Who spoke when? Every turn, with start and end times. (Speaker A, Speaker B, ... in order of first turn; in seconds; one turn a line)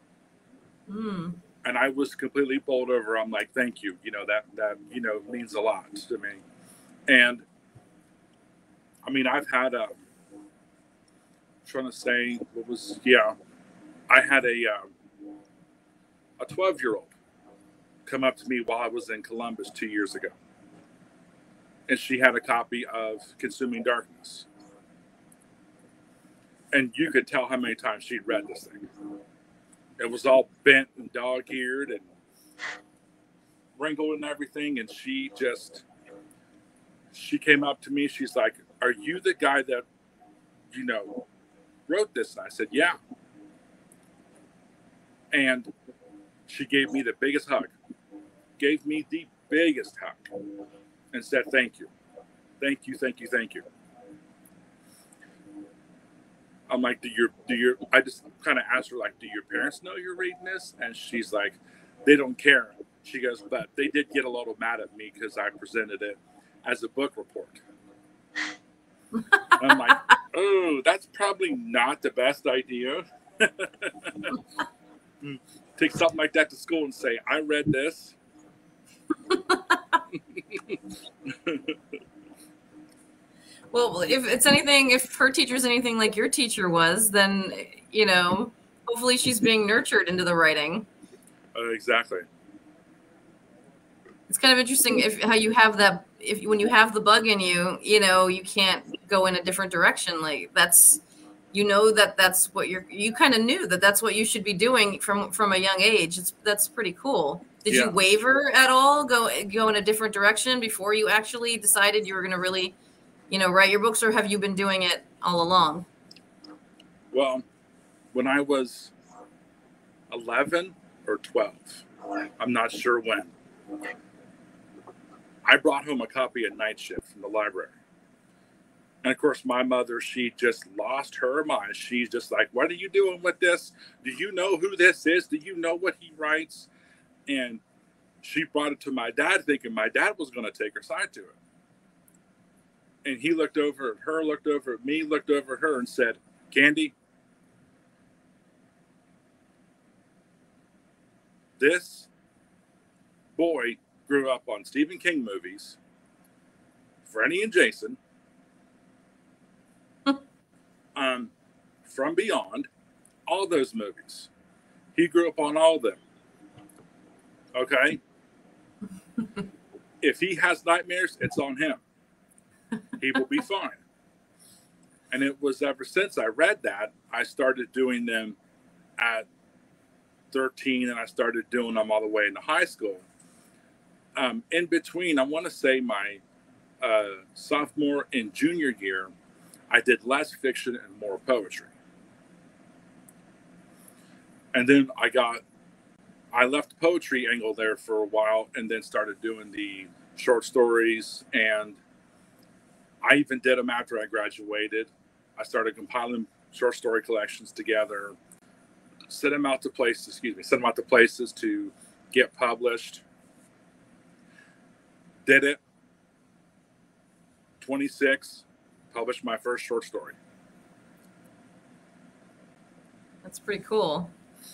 Speaker A: 0.9-1.4
Speaker B: 1.6-6.4
Speaker B: 7.1-7.5
Speaker B: 9.0-10.0
Speaker B: 11.7-13.3
Speaker B: 14.1-14.9
Speaker B: 16.4-17.1
Speaker B: 18.1-20.4
Speaker B: 21.9-24.5
Speaker B: 26.7-28.9
Speaker B: 30.0-32.1
Speaker B: 33.8-35.8
Speaker B: 37.1-39.9
Speaker B: 40.7-41.2
Speaker B: 41.9-43.0
Speaker B: 45.3-45.7
Speaker B: 46.5-47.7
Speaker B: 48.6-50.3
Speaker B: 51.1-51.9
Speaker B: 52.6-53.7
Speaker B: 56.7-67.6
Speaker B: 69.5-74.4
Speaker B: 75.2-78.2
Speaker A: 79.3-80.0
Speaker B: 80.5-80.8
Speaker B: 81.3-81.8
Speaker A: 83.7-90.9
Speaker B: 91.5-92.3
Speaker A: 94.3-101.0
Speaker A: 101.5-112.8
Speaker B: 107.7-108.0
Speaker A: 113.3-115.9
Speaker B: 117.1-117.4
Speaker B: 118.1-118.9
Speaker B: 120.1-121.8
Speaker B: 122.4-123.3
Speaker B: 125.4-127.8
Speaker B: 129.0-136.7
Speaker B: 137.3-137.6
Speaker B: 138.2-141.4
Speaker B: 143.0-146.9
Speaker B: 151.6-152.1
Speaker B: 153.4-155.8
Speaker B: 157.1-158.0
Speaker B: 160.9-161.3
Speaker B: 161.8-162.7
Speaker B: 163.3-164.3
Speaker B: 164.9-166.0
Speaker B: 167.5-168.0
Speaker B: 170.0-171.8
Speaker B: 173.0-173.8
Speaker B: 175.1-178.4
Speaker B: 179.0-179.3
Speaker B: 180.3-183.1
Speaker B: 184.2-186.2
Speaker B: 186.8-189.1
Speaker B: 189.7-191.7
Speaker B: 194.5-195.4
Speaker B: 196.3-201.8
Speaker B: 203.0-208.2
Speaker B: 209.1-213.0
Speaker B: 215.2-215.6
Speaker B: 217.6-220.2
Speaker A: 223.2-224.1